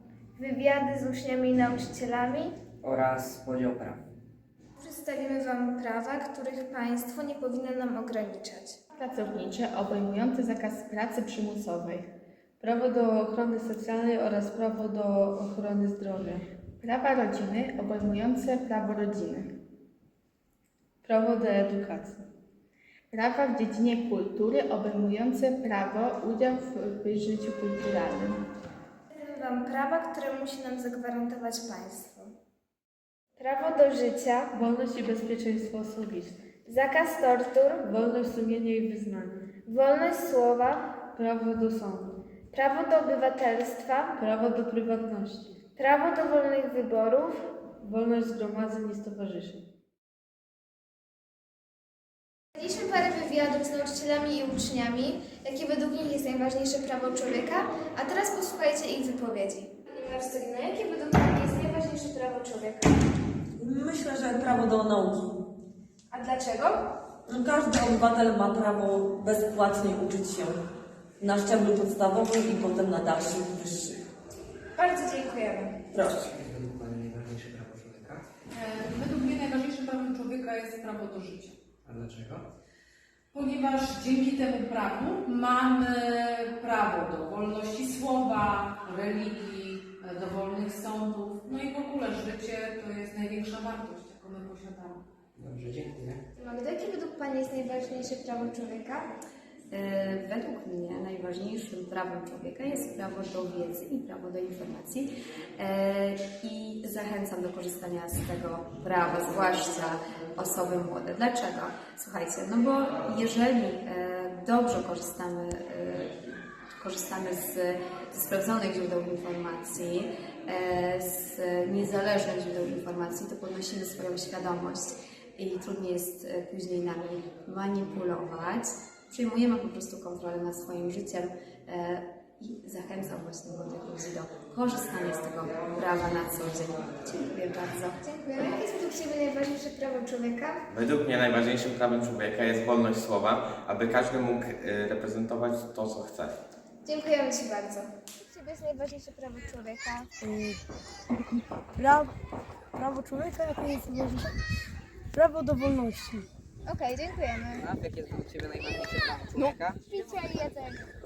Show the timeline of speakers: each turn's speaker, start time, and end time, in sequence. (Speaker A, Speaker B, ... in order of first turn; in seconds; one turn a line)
Speaker A: 0.4-2.6
Speaker A: 4.8-8.8
Speaker B: 8.9-12.1
Speaker C: 12.6-16.4
Speaker B: 16.8-19.5
Speaker C: 21.0-22.2
Speaker B: 23.1-28.4
Speaker A: 29.1-32.3
Speaker A: 33.4-34.5
Speaker C: 34.5-36.4
Speaker A: 36.6-37.9
Speaker C: 37.8-39.4
Speaker A: 39.6-41.1
Speaker C: 41.1-42.2
Speaker A: 42.5-44.1
Speaker C: 44.2-45.6
Speaker A: 45.8-47.6
Speaker C: 47.7-49.6
Speaker A: 52.5-63.0
Speaker D: 63.6-65.4
Speaker A: 66.1-66.9
Speaker D: 67.3-70.6
Speaker D: 71.2-74.0
Speaker A: 74.8-75.8
Speaker D: 75.9-76.2
Speaker E: 76.2-78.3
Speaker F: 78.5-81.6
Speaker E: 81.8-82.5
Speaker F: 83.3-95.0
Speaker E: 95.4-96.2
Speaker A: 96.4-99.1
Speaker G: 99.7-138.0
Speaker A: 138.0-140.6
Speaker H: 140.7-146.3
Speaker A: 146.8-150.1
Speaker I: 150.2-150.5
Speaker I: 151.8-152.1
Speaker I: 152.8-154.3
Speaker I: 155.2-156.2
Speaker A: 156.7-157.7
Speaker E: 157.8-159.6
Speaker A: 159.4-160.9